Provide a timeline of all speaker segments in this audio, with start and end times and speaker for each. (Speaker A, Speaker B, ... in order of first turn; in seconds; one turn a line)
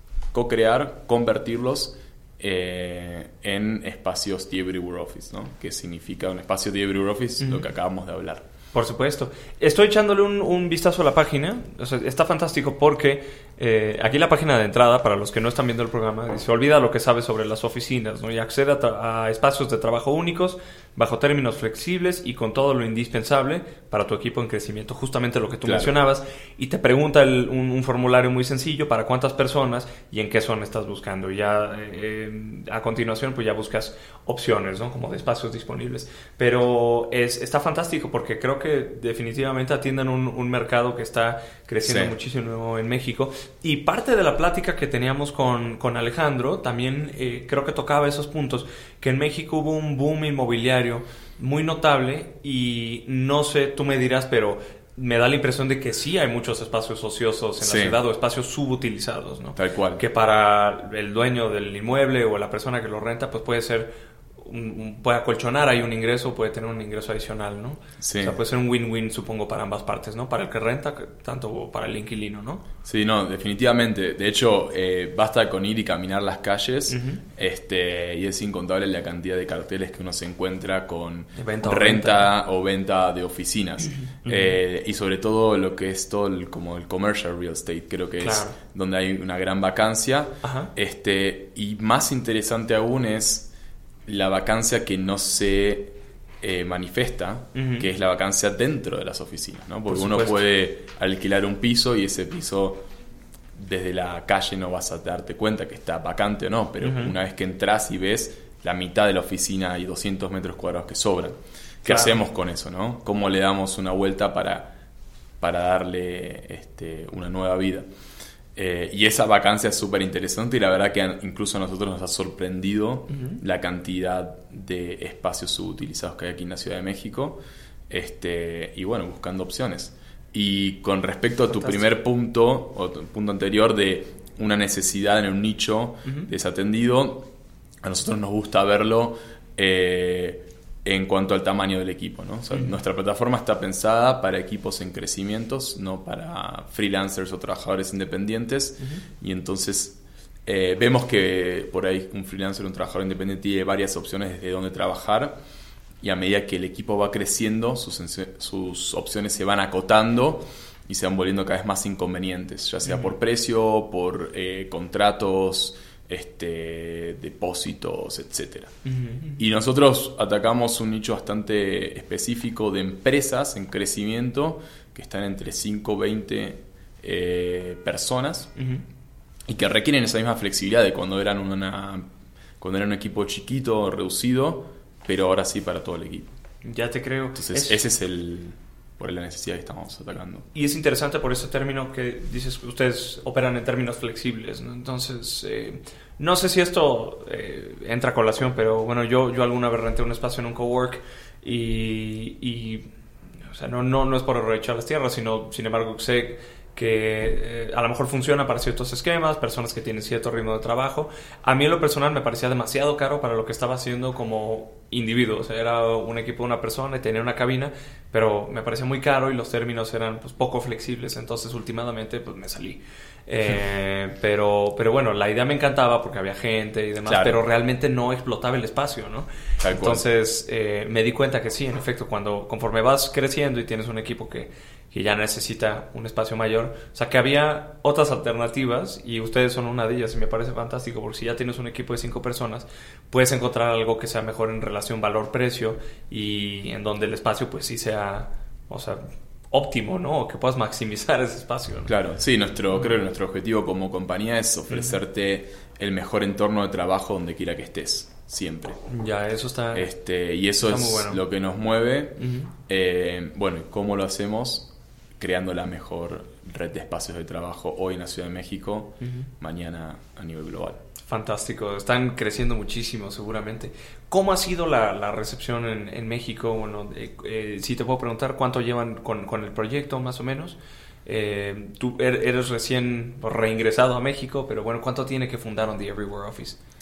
Speaker A: 0.3-8.5
Speaker B: 7.4-7.7
Speaker B: 8.7-72.7
Speaker A: 25.6-25.9
Speaker A: 41.8-42.1
Speaker A: 57.6-58.0
Speaker A: 59.5-60.0
Speaker A: 68.0-68.4
Speaker A: 72.8-93.5
Speaker B: 76.9-77.2
Speaker B: 81.3-82.3
Speaker B: 83.8-84.6
Speaker B: 88.2-88.6
Speaker B: 90.4-90.7
Speaker A: 94.0-102.9
Speaker B: 97.5-97.9
Speaker B: 99.9-100.4
Speaker A: 103.5-114.8
Speaker B: 106.8-107.1
Speaker B: 111.8-112.3
Speaker A: 115.4-117.9
Speaker A: 118.5-137.3
Speaker B: 123.1-123.4
Speaker B: 131.4-132.0
Speaker B: 136.0-136.3
Speaker A: 137.8-155.4
Speaker A: 156.0-168.7
Speaker B: 162.8-163.2
Speaker B: 168.8-169.4
Speaker A: 169.4-178.5
Speaker B: 178.6-178.8
Speaker A: 179.5-182.1
Speaker A: 182.6-186.3
Speaker B: 186.6-187.8
Speaker A: 187.3-190.5
Speaker B: 190.5-202.9
Speaker B: 203.5-251.9
Speaker A: 227.0-227.4
Speaker A: 229.6-230.0
Speaker A: 251.8-258.8
Speaker B: 252.7-253.0
Speaker B: 254.7-255.0
Speaker B: 258.9-259.9
Speaker A: 259.7-270.8
Speaker B: 260.6-261.2
Speaker B: 262.2-262.5
Speaker B: 269.0-269.3
Speaker B: 271.1-286.6